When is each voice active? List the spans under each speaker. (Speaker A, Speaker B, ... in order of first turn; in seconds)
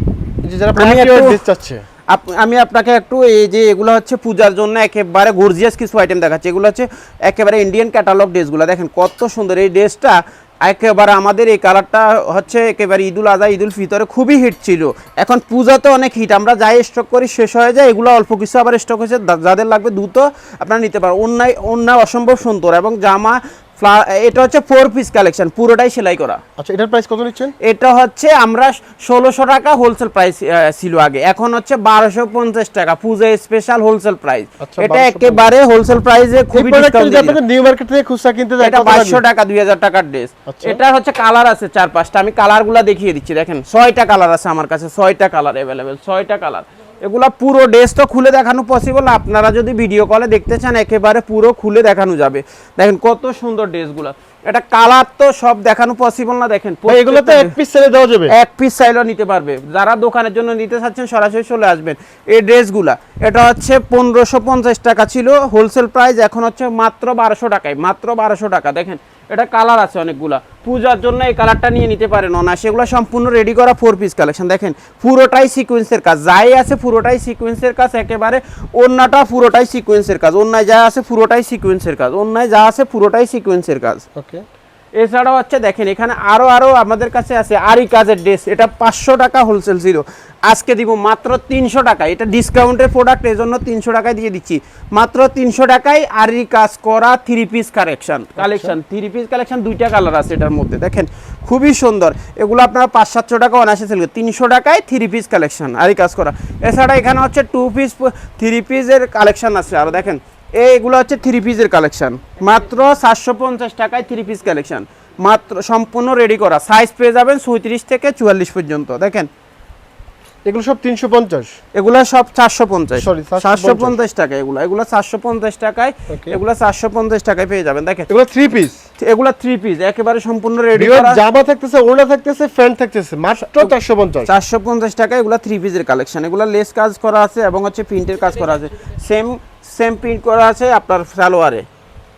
Speaker A: 0.4-1.8, 26.6-27.5, 34.6-35.5, 36.5-39.2, 40.5-40.8, 56.9-58.3, 84.2-84.4, 98.4-98.7, 120.5-121.5, 123.0-124.0, 126.1-126.4, 128.1-128.8, 130.8-134.3
Speaker B: 0.8-1.4, 2.1-26.4, 27.6-37.4, 38.6-57.5, 58.3-84.0, 85.0-119.3, 121.8-128.1, 129.0-131.2, 133.4-133.7, 134.3-141.7